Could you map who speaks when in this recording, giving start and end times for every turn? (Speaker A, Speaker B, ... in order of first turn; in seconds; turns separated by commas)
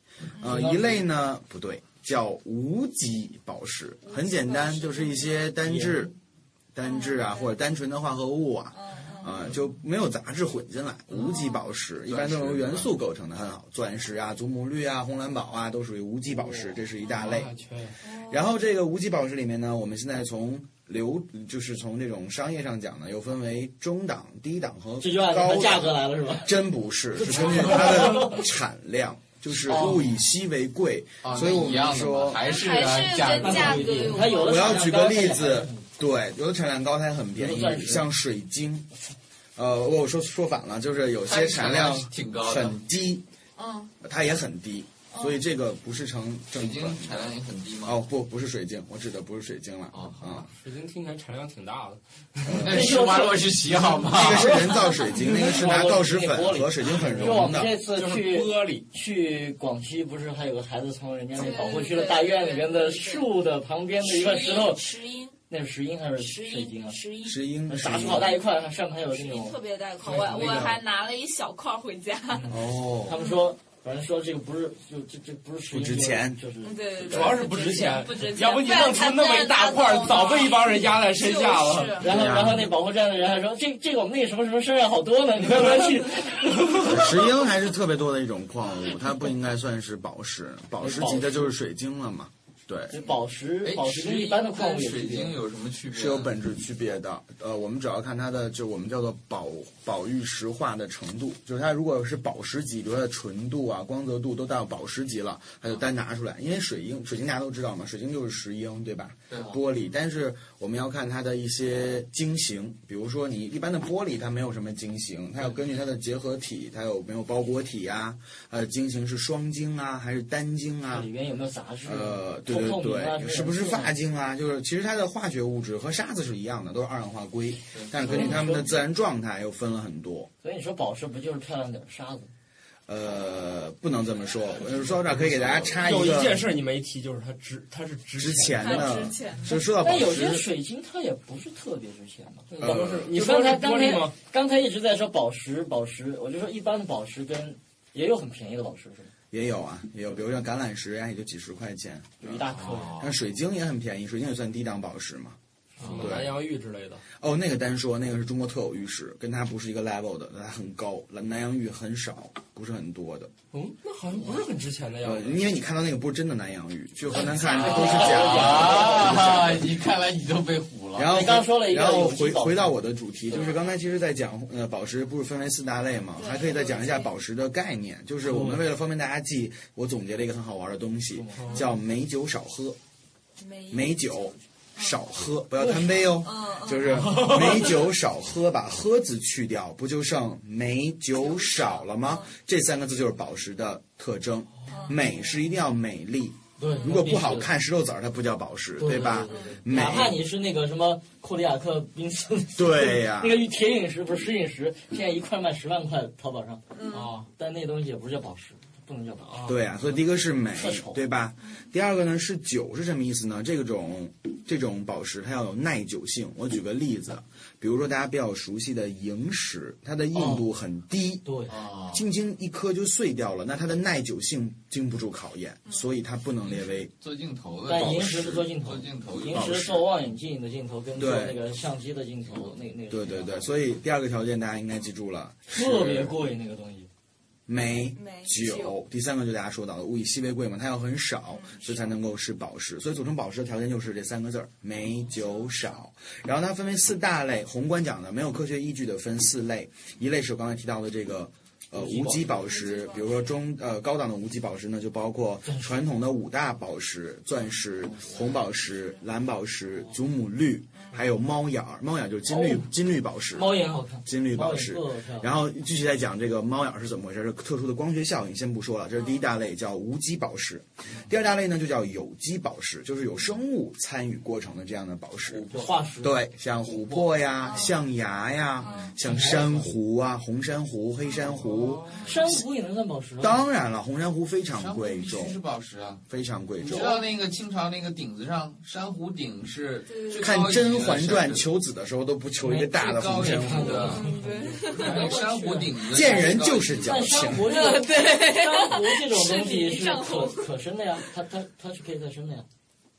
Speaker A: 0.4-6.1, Speaker B: 0.4-0.6, Speaker C: 0.4-1.1, Speaker B: 4.1-5.5, Speaker C: 5.6-6.1, Speaker A: 6.7-17.5, Speaker B: 6.8-7.5, Speaker B: 8.7-9.4, Speaker B: 11.2-11.6, Speaker D: 12.1-12.9, Speaker E: 17.1-18.0, Speaker B: 18.0-18.5, Speaker A: 18.1-32.5, Speaker C: 25.0-26.6, Speaker C: 27.1-28.4, Speaker C: 29.7-30.0, Speaker D: 31.2-34.2, Speaker B: 32.4-34.9, Speaker C: 33.2-35.9, Speaker A: 34.3-38.9, Speaker C: 37.4-38.1, Speaker A: 39.6-43.2, Speaker D: 41.3-42.8, Speaker B: 43.6-43.9, Speaker A: 44.0-47.3, Speaker B: 45.1-45.4, Speaker D: 46.5-48.1, Speaker A: 47.8-50.5, Speaker D: 49.9-50.3, Speaker E: 50.5-52.7, Speaker A: 52.5-53.0, Speaker D: 52.6-54.6, Speaker C: 52.7-64.9, Speaker A: 54.1-57.7, Speaker B: 54.9-55.3, Speaker E: 57.0-58.9, Speaker B: 61.3-63.3, Speaker B: 64.0-65.4, Speaker C: 65.5-67.0, Speaker B: 66.2-67.4, Speaker A: 67.2-68.4, Speaker C: 67.7-69.6, Speaker B: 69.1-72.6, Speaker A: 70.0-70.8, Speaker A: 72.5-73.2, Speaker C: 72.5-76.8, Speaker B: 73.1-73.4, Speaker A: 75.7-76.4, Speaker B: 76.6-82.1, Speaker E: 77.0-82.0, Speaker A: 77.1-77.4, Speaker C: 82.0-86.9, Speaker A: 82.0-82.7, Speaker E: 85.6-87.0, Speaker A: 86.7-93.0, Speaker C: 90.8-91.5, Speaker C: 92.9-95.4, Speaker D: 93.6-96.3, Speaker A: 95.9-121.1, Speaker D: 109.3-109.6, Speaker C: 120.9-123.9, Speaker A: 121.8-130.3, Speaker C: 128.0-128.7, Speaker C: 130.4-132.3, Speaker A: 132.9-136.4, Speaker E: 135.7-139.1, Speaker A: 138.2-140.5, Speaker B: 138.6-139.6, Speaker C: 139.8-149.1, Speaker E: 142.5-144.2, Speaker A: 142.6-143.1, Speaker A: 149.3-155.4, Speaker C: 152.2-153.1, Speaker D: 152.5-153.1, Speaker D: 155.8-156.1, Speaker E: 155.8-157.1, Speaker A: 156.0-156.4, Speaker A: 157.2-163.3, Speaker E: 163.5-165.4, Speaker A: 165.0-169.6, Speaker B: 167.3-168.2, Speaker C: 167.4-169.5, Speaker D: 167.5-171.2, Speaker A: 170.9-182.8, Speaker C: 171.0-172.8, Speaker B: 173.3-173.6, Speaker B: 176.2-177.1, Speaker C: 178.3-178.6, Speaker C: 181.1-181.6, Speaker B: 183.4-183.9, Speaker A: 183.7-200.2, Speaker B: 186.1-187.8, Speaker E: 187.0-187.4, Speaker B: 191.2-192.3, Speaker B: 194.7-195.0, Speaker C: 196.6-197.5, Speaker C: 198.8-206.6, Speaker A: 202.6-203.4, Speaker B: 206.7-207.2, Speaker E: 206.9-207.3, Speaker C: 207.3-209.4, Speaker E: 209.3-209.6, Speaker A: 209.4-221.4, Speaker C: 210.5-211.0, Speaker C: 220.2-220.4, Speaker C: 221.2-221.6, Speaker D: 221.5-222.0, Speaker A: 221.9-226.9, Speaker D: 226.5-229.5, Speaker C: 227.7-233.5, Speaker A: 229.3-229.9, Speaker A: 231.0-231.4, Speaker A: 232.9-236.2, Speaker C: 235.5-236.9, Speaker A: 237.5-275.5, Speaker B: 237.9-238.8, Speaker B: 241.3-241.9, Speaker C: 251.8-252.2, Speaker B: 252.2-253.2, Speaker C: 255.5-255.7, Speaker C: 262.3-262.7, Speaker C: 263.3-265.3, Speaker D: 275.3-275.7, Speaker C: 275.5-276.1, Speaker A: 276.0-281.9, Speaker B: 278.6-279.0, Speaker D: 278.6-278.9, Speaker C: 279.1-279.7, Speaker E: 281.5-281.9, Speaker C: 282.0-283.4, Speaker A: 283.2-285.4, Speaker D: 284.6-286.0, Speaker A: 286.1-287.0, Speaker D: 286.6-291.5, Speaker B: 286.7-287.1, Speaker B: 289.9-290.5, Speaker A: 290.1-294.0, Speaker C: 292.4-296.2, Speaker D: 292.7-294.1, Speaker B: 293.8-295.2, Speaker D: 294.7-297.2, Speaker A: 295.9-297.7, Speaker C: 296.8-302.5, Speaker B: 297.5-300.5